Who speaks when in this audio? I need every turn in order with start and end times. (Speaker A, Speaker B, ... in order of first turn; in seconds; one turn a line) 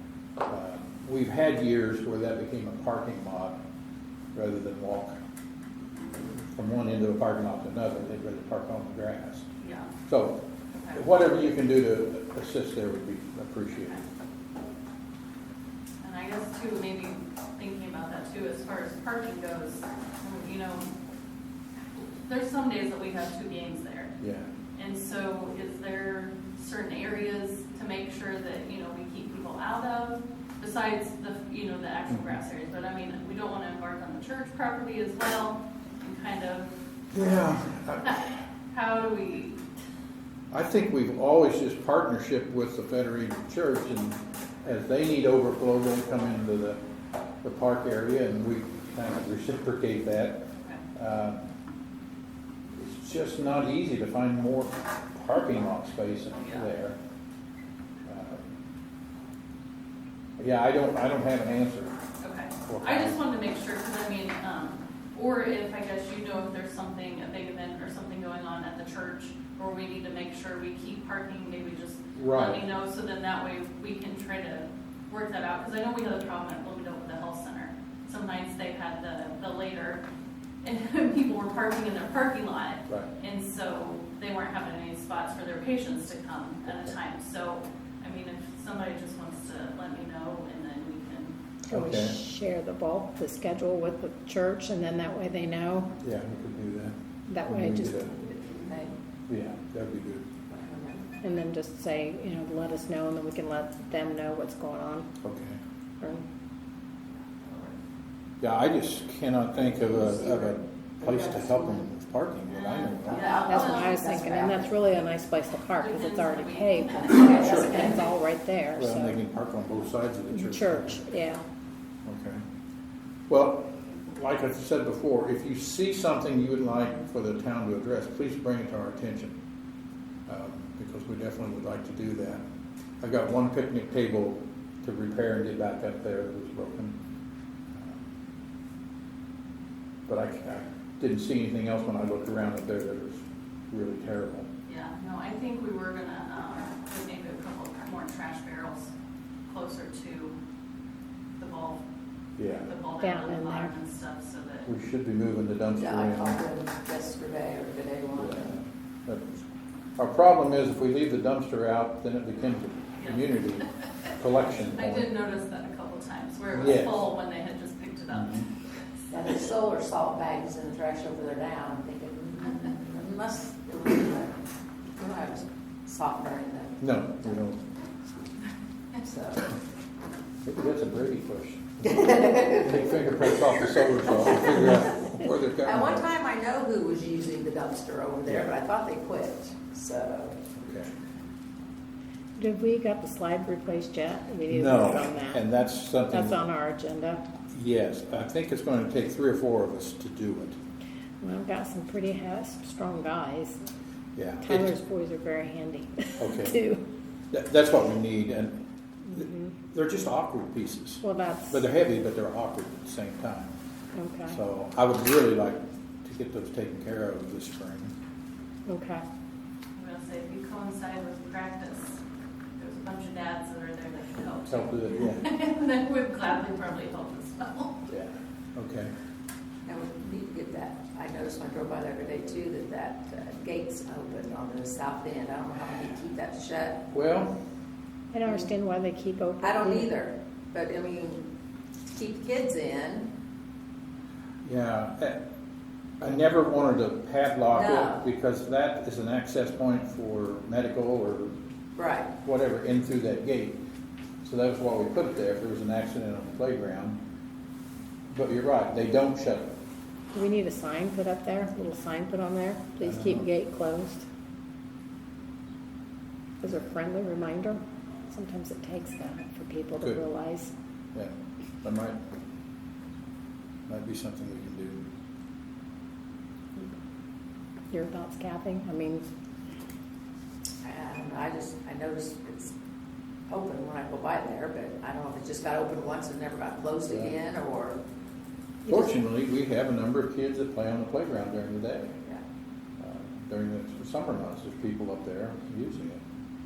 Speaker A: 0.5-3.6
Speaker A: 4.3-5.2
Speaker A: 6.4-9.5
Speaker B: 9.6-9.9
Speaker A: 10.1-10.4
Speaker B: 10.7-11.0
Speaker A: 10.9-14.0
Speaker B: 16.0-20.9
Speaker B: 22.0-24.1
Speaker A: 24.2-24.5
Speaker B: 24.8-36.7
Speaker A: 32.1-32.4
Speaker A: 37.1-38.4
Speaker B: 38.0-39.6
Speaker A: 40.5-46.8
Speaker A: 47.4-50.4
Speaker A: 51.0-51.4
Speaker A: 52.7-57.0
Speaker B: 56.3-56.7
Speaker A: 58.0-58.5
Speaker A: 60.4-62.0
Speaker B: 62.2-80.0
Speaker A: 62.6-63.2
Speaker A: 72.1-72.6
Speaker B: 80.6-91.3
Speaker A: 86.7-87.0
Speaker A: 91.7-92.2
Speaker C: 91.7-96.0
Speaker A: 96.0-98.1
Speaker C: 97.3-98.2
Speaker D: 98.5-98.9
Speaker A: 99.3-100.2
Speaker D: 100.5-101.1
Speaker C: 101.2-105.1
Speaker A: 105.2-105.6
Speaker D: 107.4-107.7
Speaker A: 108.4-113.3
Speaker D: 109.8-111.9
Speaker B: 112.5-114.0
Speaker D: 113.0-114.7
Speaker C: 113.4-119.2
Speaker B: 115.8-118.0
Speaker D: 117.0-117.8
Speaker A: 117.4-117.9
Speaker A: 118.7-121.0
Speaker C: 120.3-121.4
Speaker A: 122.0-122.4
Speaker A: 123.3-129.3
Speaker A: 130.3-132.4
Speaker A: 133.0-137.0
Speaker A: 137.7-138.1
Speaker A: 140.1-144.5
Speaker B: 144.7-148.9
Speaker B: 149.5-150.3
Speaker B: 151.4-151.8
Speaker A: 152.4-152.7
Speaker B: 152.6-154.7
Speaker C: 153.0-153.7
Speaker A: 154.7-156.4
Speaker D: 155.8-158.5
Speaker A: 158.2-159.4
Speaker A: 160.0-165.1
Speaker B: 163.0-168.4
Speaker A: 166.5-167.0
Speaker A: 168.1-168.5
Speaker D: 169.1-174.4
Speaker D: 175.0-176.8
Speaker A: 176.8-177.6
Speaker D: 179.0-179.5
Speaker A: 180.5-186.1
Speaker D: 181.9-183.0
Speaker D: 184.1-185.1
Speaker D: 185.6-190.4
Speaker A: 190.6-190.9
Speaker C: 192.4-195.4
Speaker A: 194.5-196.4
Speaker C: 196.1-197.2
Speaker A: 197.5-200.6
Speaker C: 201.2-203.6
Speaker A: 204.2-204.7
Speaker C: 204.4-206.8
Speaker A: 206.2-206.6
Speaker A: 207.3-213.6
Speaker C: 209.1-209.6
Speaker C: 211.0-211.6
Speaker C: 213.9-214.4
Speaker A: 214.3-217.9
Speaker C: 218.7-219.0
Speaker B: 219.8-222.0
Speaker B: 222.6-227.8
Speaker A: 224.5-225.3
Speaker A: 227.9-228.9
Speaker D: 229.7-236.8
Speaker A: 236.9-237.3
Speaker C: 238.1-239.9
Speaker D: 239.4-241.2
Speaker D: 241.9-243.1
Speaker A: 244.4-245.2
Speaker A: 246.0-251.3
Speaker D: 247.5-248.1
Speaker D: 251.8-252.1
Speaker A: 252.2-253.6
Speaker A: 254.2-257.0
Speaker A: 258.1-259.5
Speaker C: 260.1-264.1
Speaker A: 262.8-263.3
Speaker C: 266.4-270.5
Speaker A: 270.9-272.0
Speaker A: 273.7-274.9
Speaker C: 277.7-279.1
Speaker D: 280.6-282.5
Speaker D: 283.3-287.8
Speaker A: 288.6-291.9
Speaker A: 292.8-296.0